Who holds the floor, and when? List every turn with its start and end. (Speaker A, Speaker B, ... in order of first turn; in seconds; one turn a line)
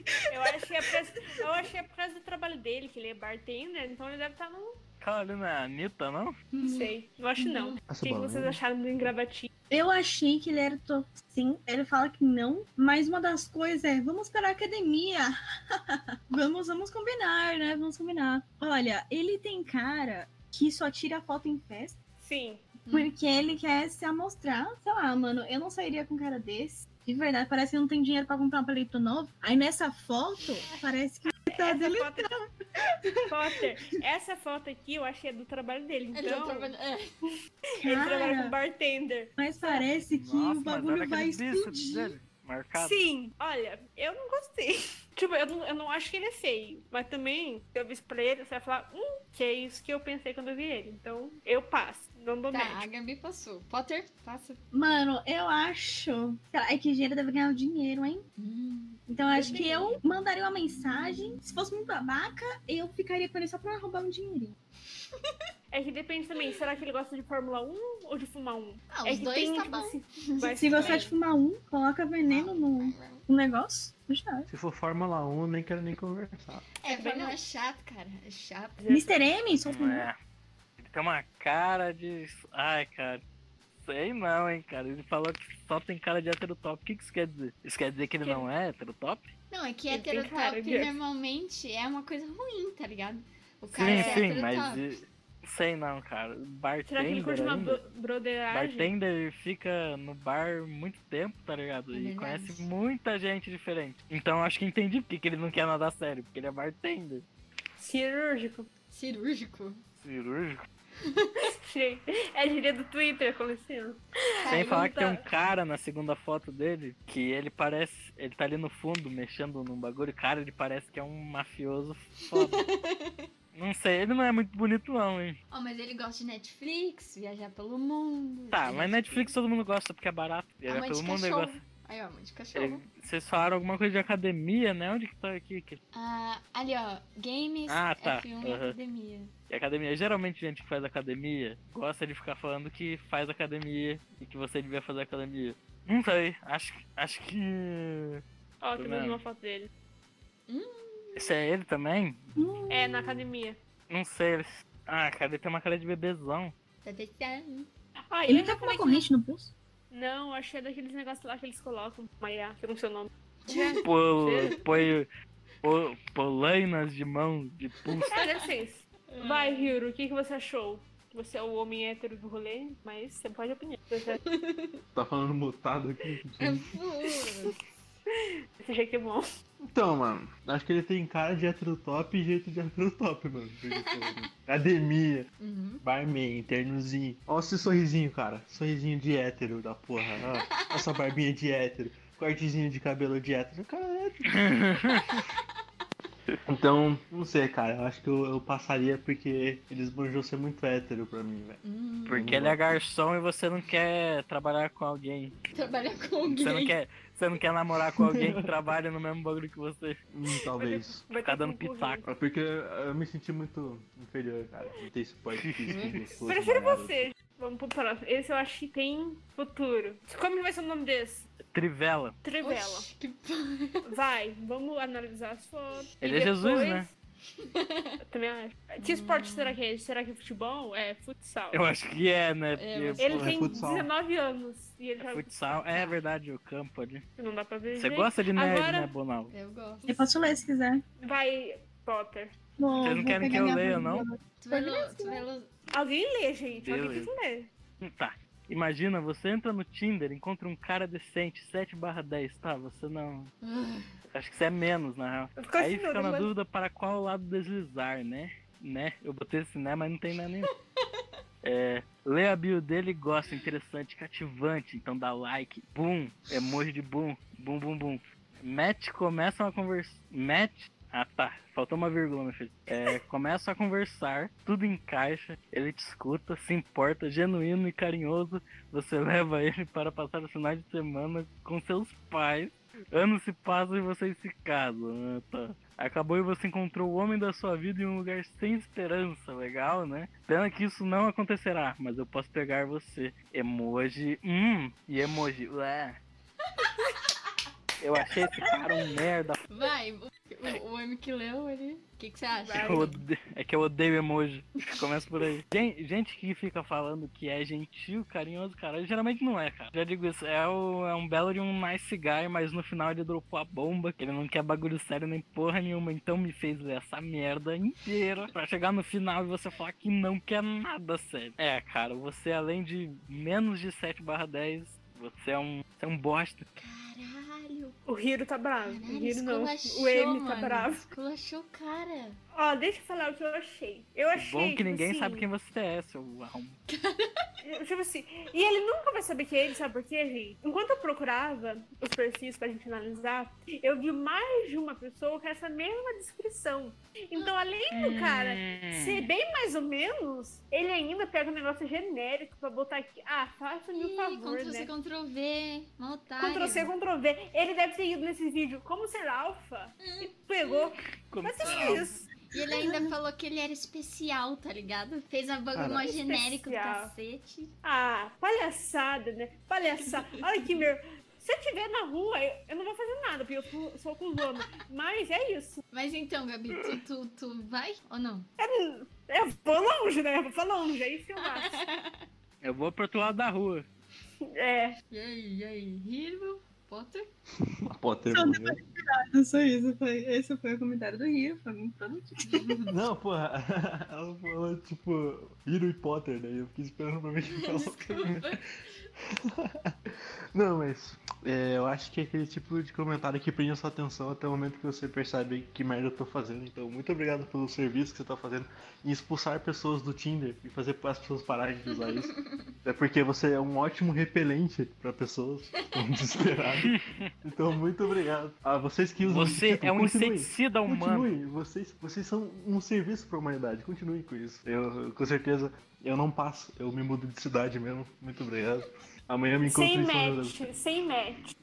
Speaker A: 0.3-4.8
Speaker B: 0.3-0.9
Speaker C: 5.0-6.3
Speaker D: 6.5-7.8
Speaker A: 6.6-9.5
Speaker E: 7.8-8.6
Speaker B: 9.7-22.0
Speaker A: 22.2-22.6
Speaker D: 22.8-23.1
Speaker B: 22.9-32.3
Speaker A: 31.5-32.3
Speaker B: 33.1-33.5
Speaker A: 33.3-36.7
Speaker D: 36.1-37.1
Speaker A: 37.7-39.9
Speaker B: 37.8-38.5
Speaker B: 39.4-42.2
Speaker C: 40.1-43.0
Speaker A: 42.8-52.9
Speaker D: 52.5-54.6
Speaker B: 54.7-58.2
Speaker D: 58.4-59.0
Speaker B: 59.1-64.5
Speaker A: 59.3-60.0
Speaker A: 65.7-71.1
Speaker D: 68.9-71.1
Speaker B: 70.6-74.5
Speaker D: 72.2-73.2
Speaker E: 74.5-76.7
Speaker D: 76.8-78.8
Speaker A: 76.9-77.3
Speaker A: 78.8-79.1
Speaker B: 78.9-80.1
Speaker C: 79.6-80.2
Speaker C: 80.8-83.2
Speaker C: 83.8-89.3
Speaker A: 88.2-88.5
Speaker D: 89.5-94.8
Speaker A: 89.9-90.9
Speaker C: 93.7-97.8
Speaker A: 93.8-94.3
Speaker A: 96.9-98.9
Speaker C: 98.5-107.2
Speaker D: 101.9-102.7
Speaker A: 107.8-108.7
Speaker D: 108.9-109.8
Speaker C: 110.0-110.6
Speaker D: 111.0-111.5
Speaker A: 111.4-115.2
Speaker D: 114.4-114.9
Speaker C: 114.5-122.6
Speaker D: 122.3-123.2
Speaker C: 123.5-125.4
Speaker D: 125.5-129.3
Speaker C: 128.5-131.6
Speaker D: 130.7-132.8
Speaker C: 132.6-135.8
Speaker D: 135.9-139.3
Speaker C: 137.7-138.8
Speaker C: 139.5-148.2
Speaker A: 148.6-149.7
Speaker C: 148.8-149.2
Speaker D: 150.5-151.3
Speaker C: 151.1-152.2
Speaker B: 152.4-153.2
Speaker A: 152.7-153.6
Speaker C: 153.9-156.5
Speaker D: 156.8-157.7
Speaker A: 158.1-159.1
Speaker B: 158.3-159.5
Speaker A: 159.9-164.6
Speaker D: 163.4-163.8
Speaker C: 163.8-165.1
Speaker D: 164.4-164.7
Speaker C: 165.6-168.1
Speaker D: 167.8-168.5
Speaker A: 168.1-174.2
Speaker D: 169.1-169.7
Speaker D: 174.2-174.8
Speaker E: 174.9-176.8
Speaker D: 176.4-177.6
Speaker A: 178.1-179.2
Speaker E: 179.6-185.3
Speaker D: 183.8-184.3
Speaker D: 185.4-185.8
Speaker E: 185.8-194.7
Speaker D: 190.3-190.7
Speaker C: 194.3-195.2
Speaker D: 194.9-195.3
Speaker E: 196.5-202.6
Speaker D: 201.6-202.3
Speaker C: 202.1-205.3
Speaker D: 205.5-206.8
Speaker C: 206.3-210.0
Speaker E: 207.9-208.4
Speaker E: 210.1-211.1
Speaker A: 210.6-212.0
Speaker C: 211.2-212.0
Speaker E: 212.0-217.1
Speaker C: 215.3-216.0
Speaker D: 215.7-216.0
Speaker A: 216.2-221.3
Speaker C: 221.5-222.2
Speaker A: 222.2-222.9
Speaker D: 222.4-224.0
Speaker A: 223.8-226.9
Speaker C: 226.0-226.9
Speaker D: 227.4-228.0
Speaker A: 228.0-231.6
Speaker D: 228.8-229.6
Speaker C: 231.5-233.1
Speaker D: 232.5-233.6
Speaker A: 233.0-235.3
Speaker E: 233.0-233.9
Speaker C: 235.1-237.0
Speaker D: 235.7-236.0
Speaker A: 237.2-238.9
Speaker C: 237.8-239.3
Speaker D: 239.3-240.1
Speaker B: 239.9-240.8
Speaker A: 241.0-242.3
Speaker B: 242.6-245.2
Speaker D: 242.7-243.2
Speaker C: 242.8-244.1
Speaker D: 244.4-245.5
Speaker A: 245.7-247.5
Speaker C: 246.6-247.1
Speaker C: 247.8-253.3
Speaker D: 253.4-253.9
Speaker C: 254.1-260.5
Speaker A: 255.3-256.3
Speaker C: 261.4-296.0
Speaker D: 296.6-297.3
Speaker C: 297.8-299.4
Speaker D: 299.5-303.0
Speaker A: 302.3-302.9
Speaker C: 302.5-326.5
Speaker D: 326.6-327.8
Speaker A: 327.9-330.9
Speaker D: 328.6-332.2
Speaker A: 332.3-335.2
Speaker C: 334.1-336.6
Speaker D: 336.7-337.3
Speaker A: 337.4-354.7
Speaker C: 347.7-349.1
Speaker D: 353.7-356.7
Speaker A: 356.2-362.1
Speaker D: 359.8-360.7
Speaker C: 361.1-361.9
Speaker D: 361.4-367.5
Speaker B: 362.6-362.9
Speaker E: 365.5-365.9
Speaker A: 365.9-366.9
Speaker A: 367.6-375.6
Speaker D: 369.9-370.1
Speaker D: 375.7-378.3
Speaker A: 378.4-381.6
Speaker D: 381.2-382.1
Speaker C: 382.4-383.6
Speaker A: 384.2-384.8
Speaker D: 384.9-387.1
Speaker E: 387.5-388.6
Speaker B: 388.1-392.6
Speaker D: 392.2-392.7
Speaker E: 392.7-398.4
Speaker D: 397.3-398.9
Speaker E: 399.2-430.5
Speaker D: 411.7-412.5
Speaker C: 416.6-417.1
Speaker C: 419.0-421.1
Speaker A: 429.4-431.3